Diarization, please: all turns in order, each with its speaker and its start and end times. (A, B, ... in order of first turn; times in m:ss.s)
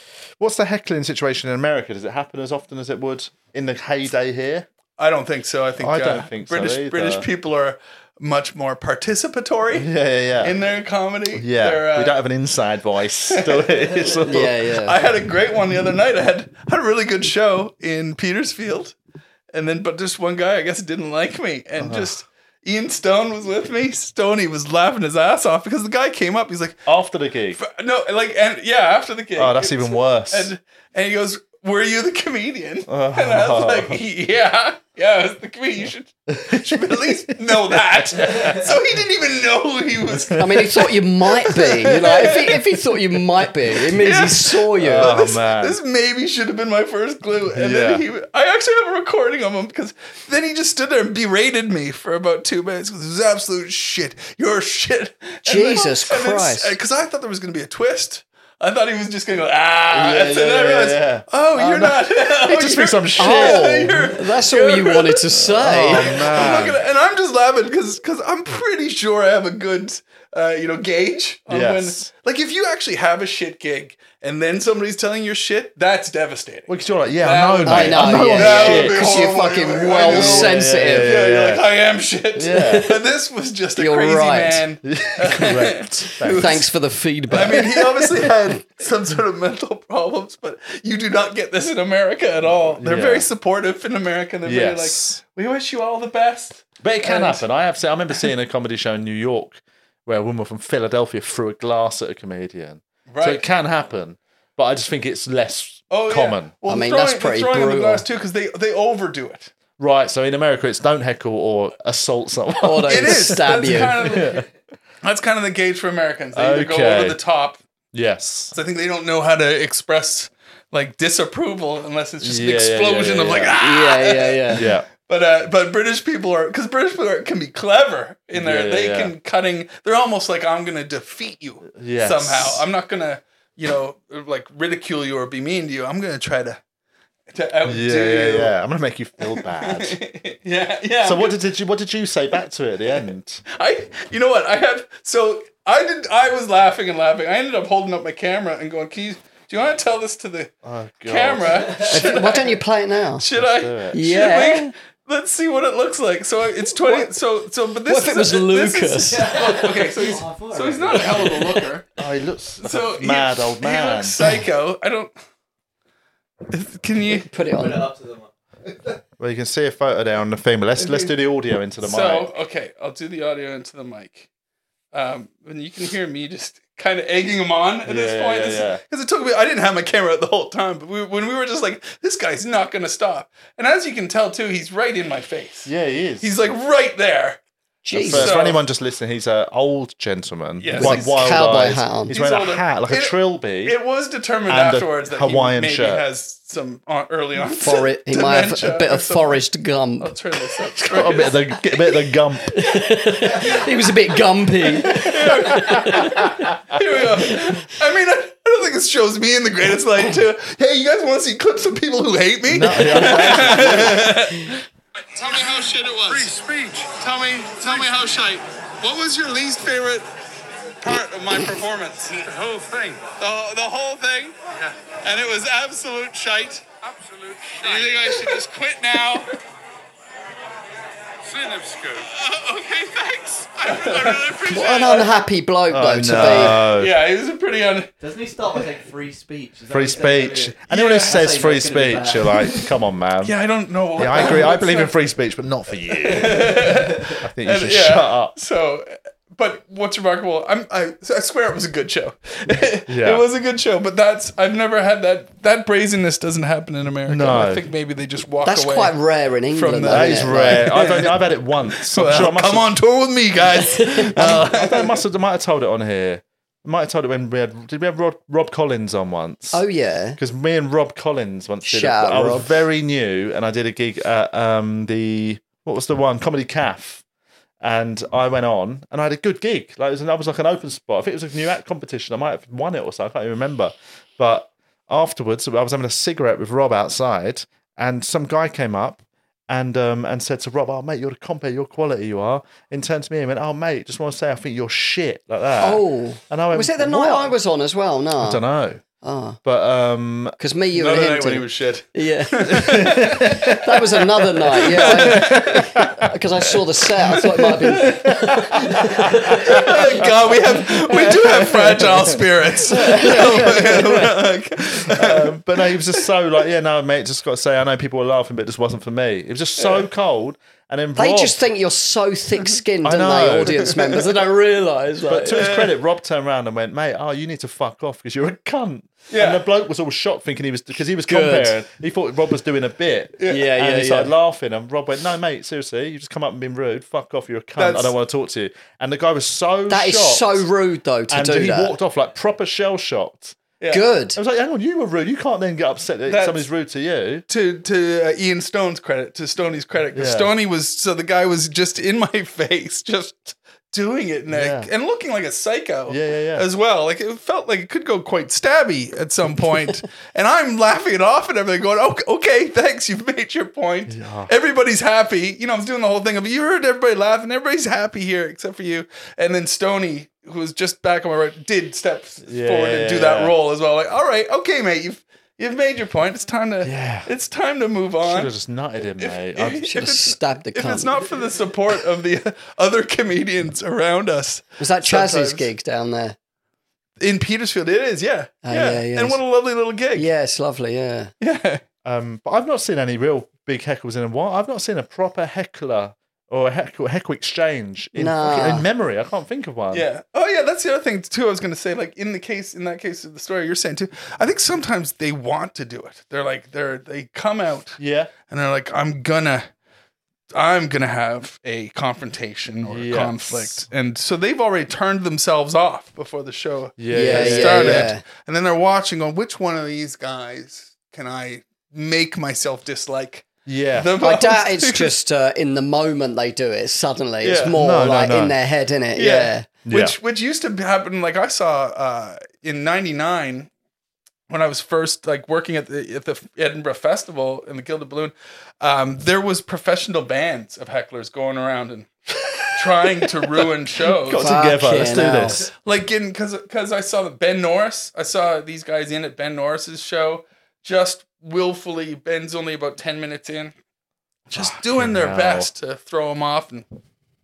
0:00.4-0:04.7 A
0:05.0-0:09.9 B
0:05.8-0:07.3 A
0:09.7-0:10.6 A
0:10.4-0:12.2 B
0:11.4-0:14.6 A
0:13.3-0:18.9 B
0:14.3-0:15.0 C
0:19.5-0:26.8 B
0:21.8-0:22.1 A
0:26.9-0:27.6 A
0:27.6-0:42.6 B
0:29.4-0:30.5 A
0:32.9-0:33.9 A
0:36.3-0:38.8 A
0:40.4-0:45.1 C
0:43.8-1:26.7 B
0:44.8-0:45.8 A
0:47.5-0:48.0 A
0:55.4-0:56.7 C
0:59.9-1:04.0 A
1:03.2-1:06.5 C
1:05.5-1:06.8 A
1:11.5-1:12.1 A
1:16.7-1:21.7 A
1:17.6-1:21.2 C
1:22.4-1:22.9 A
1:22.5-1:23.0 C
1:23.8-1:24.6 C
1:24.8-1:26.6 A
1:26.2-1:28.3 C
1:27.3-1:37.4 B
1:32.7-1:33.3 A
1:34.4-1:35.2 A
1:36.8-1:46.5 A
1:43.1-1:43.4 B
1:45.9-1:49.5 B
1:46.6-1:48.0 C
1:49.8-1:54.5 A
1:52.6-1:54.0 C
1:52.8-1:54.5 B
1:55.0-1:57.6 B
1:56.3-1:57.2 A
1:57.9-1:58.5 A
1:58.5-2:16.6 B
2:02.2-2:03.6 A
2:03.6-2:04.6 C
2:04.5-2:04.8 A
2:08.3-2:09.1 A
2:11.7-2:12.6 A
2:17.3-2:18.5 B
2:17.6-2:20.0 A
2:19.3-2:21.4 B
2:21.0-2:23.4 A
2:23.5-2:30.5 B
2:30.6-2:31.8 A
2:31.1-2:32.6 B
2:31.5-2:32.0 D
2:31.8-2:33.2 C
2:33.2-2:41.9 B
2:33.3-2:34.0 A
2:33.9-2:34.7 C
2:36.6-2:37.1 C
2:37.8-2:39.6 C
2:39.1-2:41.6 D
2:41.2-2:41.6 C
2:42.0-2:44.2 A
2:42.6-2:45.1 B
2:46.5-2:47.3 B
2:47.1-2:47.8 C
2:47.4-2:49.0 D
2:49.2-2:52.3 A
2:50.8-2:51.1 B
2:51.8-2:54.3 B
2:54.9-3:07.4 B
2:57.8-2:58.8 A
3:05.6-3:06.3 A
3:07.8-3:08.4 C
3:07.9-3:13.8 A
3:08.1-3:08.6 B
3:10.6-3:11.4 B
3:10.8-3:12.1 C
3:12.1-3:19.4 B
3:14.5-3:16.0 A
3:17.5-3:20.1 C
3:20.0-3:21.4 B
3:20.8-3:22.7 A
3:22.4-3:26.6 C
3:24.9-3:26.8 A
3:24.9-3:34.6 B
3:27.2-3:27.6 C
3:32.5-3:34.0 A
3:35.2-3:36.3 B
3:35.2-3:38.0 E
3:37.0-3:40.0 B
3:40.8-3:42.2 B
3:42.2-3:43.1 E
3:43.1-3:46.6 B
3:46.8-3:48.4 E
3:47.6-3:49.3 B
3:51.2-3:52.1 E
3:52.1-3:55.1 B
3:53.5-3:54.4 E
3:54.4-3:56.6 C
3:55.7-3:56.9 A
3:56.1-3:57.9 B
3:58.0-4:02.7 D
3:59.7-4:03.4 A
4:00.7-4:01.2 B
4:03.2-4:04.9 B
4:04.0-4:08.3 A
4:06.0-4:19.0 B
4:12.9-4:13.2 A
4:17.1-4:17.6 A
4:18.4-4:20.8 C
4:19.5-4:25.0 B
4:19.9-4:22.7 A
4:23.5-4:24.3 C
4:24.1-4:29.6 A
4:29.5-4:30.2 C
4:30.2-4:37.0 A
4:31.6-4:32.5 C
4:37.6-4:57.3 A
4:55.6-4:58.4 C
4:58.2-4:58.8 A
4:59.0-4:59.4 C
4:59.4-5:00.4 A
5:00.4-5:10.0 C
5:00.7-5:03.6 B
5:02.6-5:03.7 A
5:04.6-5:05.9 B
5:04.7-5:06.0 A
5:07.2-5:08.8 B
5:07.7-5:14.1 A
5:09.4-5:16.1 B
5:12.8-5:14.1 C
5:14.8-5:21.4 A
5:19.6-5:19.9 B
5:21.0-5:25.5 C
5:22.8-5:23.8 A
5:25.1-5:40.5 A
5:25.3-5:25.7 B
5:29.1-5:29.4 B
5:31.0-5:31.6 C
5:33.2-5:33.5 B
5:33.2-5:34.1 C
5:37.6-5:37.9 B
5:39.7-5:41.8 C
5:41.1-5:43.4 A
5:43.7-5:44.2 C
5:44.2-5:47.2 A
5:46.1-5:46.4 B
5:47.3-6:18.3 B
5:49.9-5:50.3 A
5:54.3-5:54.7 A
5:55.9-5:56.4 A
6:03.9-6:04.3 A
6:12.2-6:13.4 A
6:16.6-6:17.1 A
6:18.0-6:19.7 A
6:19.0-6:25.5 B
6:19.6-6:21.0 C
6:24.6-6:26.2 C
6:27.0-6:30.1 B
6:28.4-6:29.2 C
6:29.9-6:31.1 C
6:31.2-6:31.6 B
6:31.8-6:39.9 A
6:37.9-6:38.7 C
6:39.7-6:49.4 B
6:47.8-6:48.1 A
6:50.3-7:04.9 B
6:52.6-6:53.6 A
6:56.8-6:57.9 A
6:56.9-6:58.0 C
7:03.5-7:03.9 A
7:04.0-7:09.5 C
7:07.2-7:07.6 B
7:07.5-7:08.4 A
7:09.0-7:13.5 B
7:09.6-7:09.9 A
7:14.3-7:21.9 B
7:22.5-7:24.4 B
7:23.9-7:25.5 A
7:24.2-7:25.5 C
7:25.6-7:33.5 B
7:34.3-7:36.6 B
7:34.3-7:35.5 A